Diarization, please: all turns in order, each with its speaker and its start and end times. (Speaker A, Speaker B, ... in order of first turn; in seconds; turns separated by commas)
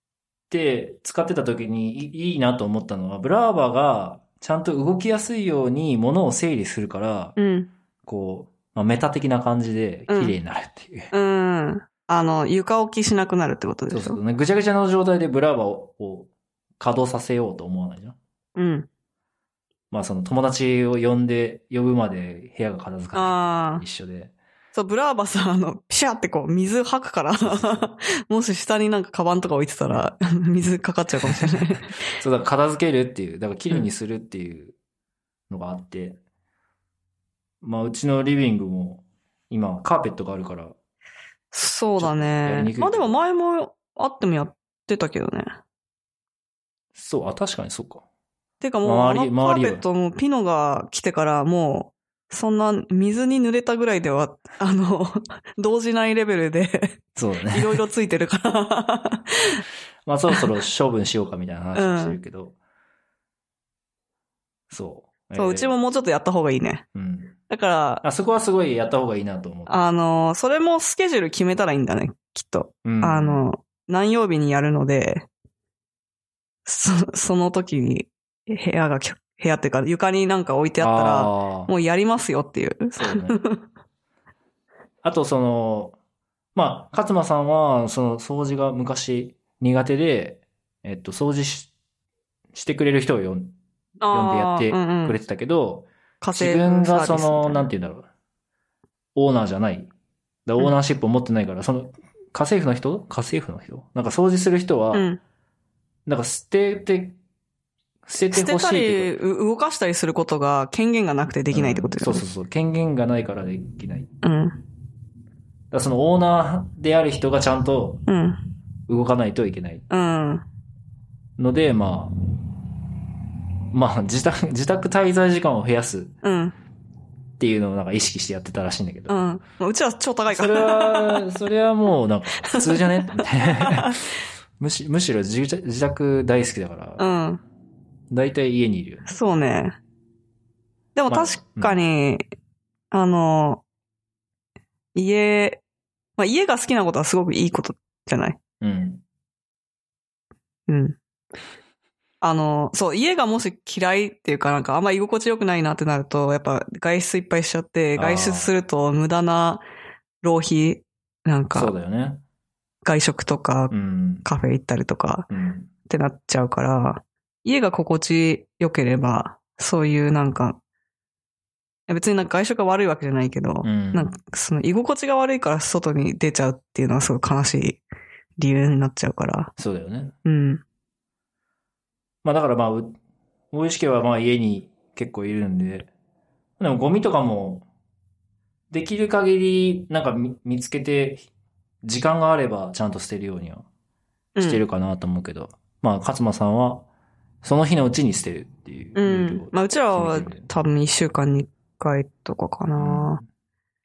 Speaker A: 0.5-7.4, Speaker B: 7.4-7.7, Speaker A: 8.0-11.1, Speaker B: 10.1-10.3, Speaker B: 11.1-14.2, Speaker A: 13.9-18.2, Speaker B: 18.6-18.9, Speaker A: 19.9-24.3, Speaker B: 23.1-23.8, Speaker B: 24.7-32.0, Speaker A: 27.4-27.9, Speaker A: 31.2-34.8, Speaker A: 35.5-36.2, Speaker A: 37.6-40.8, Speaker B: 41.5-45.5, Speaker A: 42.0-43.1, Speaker A: 47.0-48.0, Speaker B: 48.6-59.6, Speaker A: 48.8-49.8, Speaker A: 57.2-57.8, Speaker A: 60.1-62.6, Speaker B: 61.8-62.2, Speaker A: 64.7-65.8, Speaker B: 65.3-66.8, Speaker A: 66.9-67.4, Speaker B: 67.5-68.0, Speaker A: 68.0-69.8, Speaker B: 69.7-75.3, Speaker A: 72.8-73.4, Speaker B: 76.7-83.6, Speaker A: 80.8-81.7, Speaker A: 83.0-83.4, Speaker A: 85.0-86.0, Speaker A: 86.5-91.7, Speaker A: 92.5-93.5, Speaker B: 94.0-95.2, Speaker A: 94.1-98.1, Speaker B: 96.2-97.7, Speaker A: 99.2-99.9, Speaker A: 100.5-105.1, Speaker B: 104.9-105.2, Speaker A: 106.1-107.2, Speaker A: 108.1-109.2, Speaker B: 108.3-112.2, Speaker A: 111.5-114.1, Speaker B: 114.2-114.6, Speaker A: 115.7-118.0, Speaker B: 118.1-118.4, Speaker A: 118.9-119.9, Speaker B: 119.9-120.5, Speaker A: 121.4-122.1, Speaker A: 123.7-126.2, Speaker B: 126.2-126.5, Speaker A: 127.4-129.2, Speaker B: 129.1-131.3, Speaker A: 130.3-134.1, Speaker B: 132.4-134.0, Speaker A: 134.6-137.1, Speaker B: 137.0-137.4, Speaker A: 138.1-139.1, Speaker B: 139.1-139.8, Speaker B: 140.9-142.2, Speaker A: 141.1-141.8, Speaker B: 142.9-143.6, Speaker B: 144.9-145.6, Speaker B: 146.2-148.4, Speaker A: 148.6-149.0, Speaker B: 150.7-151.0, Speaker B: 152.2-159.6, Speaker A: 158.0-158.5, Speaker B: 160.2-161.7, Speaker A: 161.5-162.2, Speaker B: 162.8-163.7, Speaker A: 163.7-164.3, Speaker B: 164.2-165.3, Speaker A: 165.3-165.7, Speaker B: 165.9-170.6, Speaker B: 171.9-177.8, Speaker A: 173.6-174.1, Speaker B: 178.4-179.5, Speaker A: 179.6-180.1, Speaker B: 180.2-180.6, Speaker A: 182.2-183.0, Speaker A: 183.5-185.9, Speaker A: 186.6-187.7, Speaker A: 188.7-191.3, Speaker A: 191.8-193.7, Speaker B: 194.3-194.6, Speaker A: 194.4-196.9, Speaker A: 197.4-200.5, Speaker B: 199.0-203.2, Speaker A: 202.8-203.2